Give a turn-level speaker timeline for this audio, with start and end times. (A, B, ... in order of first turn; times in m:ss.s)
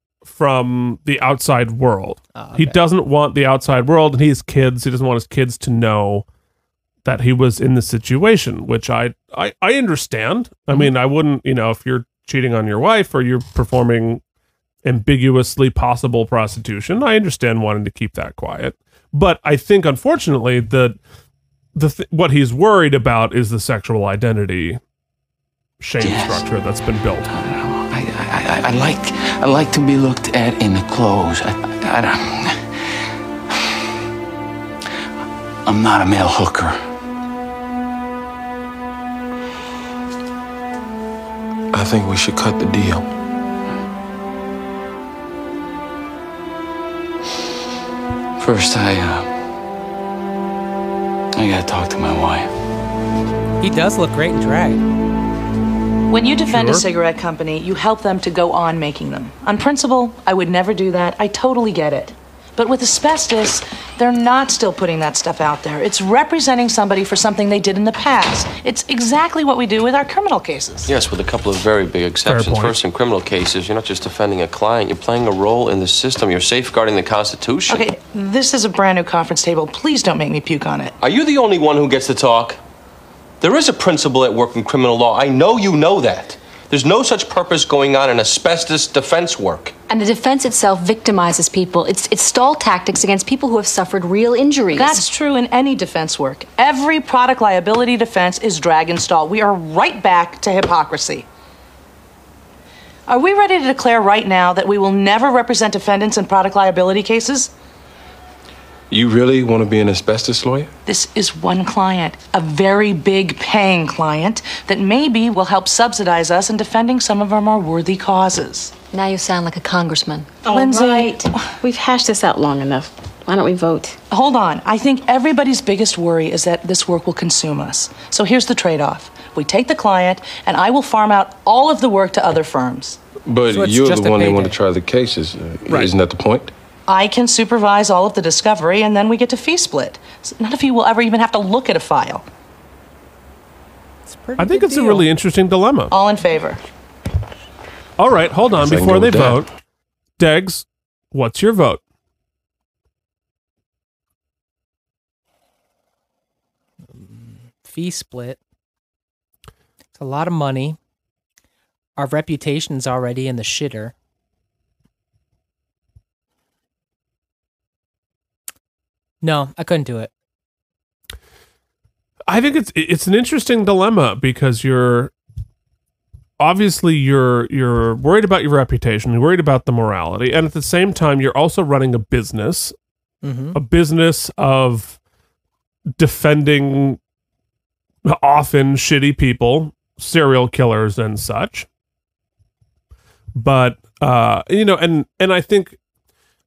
0:00.2-0:06.3 A
0:02.4-0:02.8 B
0:07.0-0:14.2 A
0:14.8-0:21.0 A
0:21.8-0:24.8 A
0:25.8-0:27.3 A
0:26.0-0:26.4 C
0:27.3-0:32.8 C
0:35.7-0:36.8 C
0:41.7-0:43.1 D
0:48.4-0:49.3 C
0:51.4-0:52.5 C
0:53.6-0:54.8 B
0:56.1-1:10.9 E
0:56.5-0:56.8 A
1:10.9-1:17.9 F
1:12.2-1:12.8 A
1:17.7-1:20.9 E
1:21.0-1:22.6 F
1:23.4-1:29.7 F
1:29.9-1:35.0 G
1:34.7-1:41.3 E
1:43.1-1:47.5 E
1:48.9-1:50.7 D
1:50.9-1:58.7 E
1:58.9-2:00.5 G
2:00.4-2:01.4 E
2:00.5-2:04.0 H
2:04.1-2:13.0 E
2:13.2-2:16.5 D
2:13.5-2:14.6 B
2:16.9-2:22.2 E
2:24.1-2:25.1 B
2:24.4-2:25.9 A
2:25.9-2:26.6 E
2:28.0-2:29.5 A
2:28.5-2:29.5 D
2:30.2-2:31.8 A
2:37.0-2:38.4 B
2:40.0-2:40.8 B
2:42.0-2:43.9 B
2:49.2-2:50.1 B
2:52.3-2:55.1 A
2:56.4-3:02.8 A
3:03.2-3:03.6 B
3:03.5-3:05.0 A
3:06.0-3:07.0 A
3:08.0-3:11.7 A
3:13.4-3:15.8 A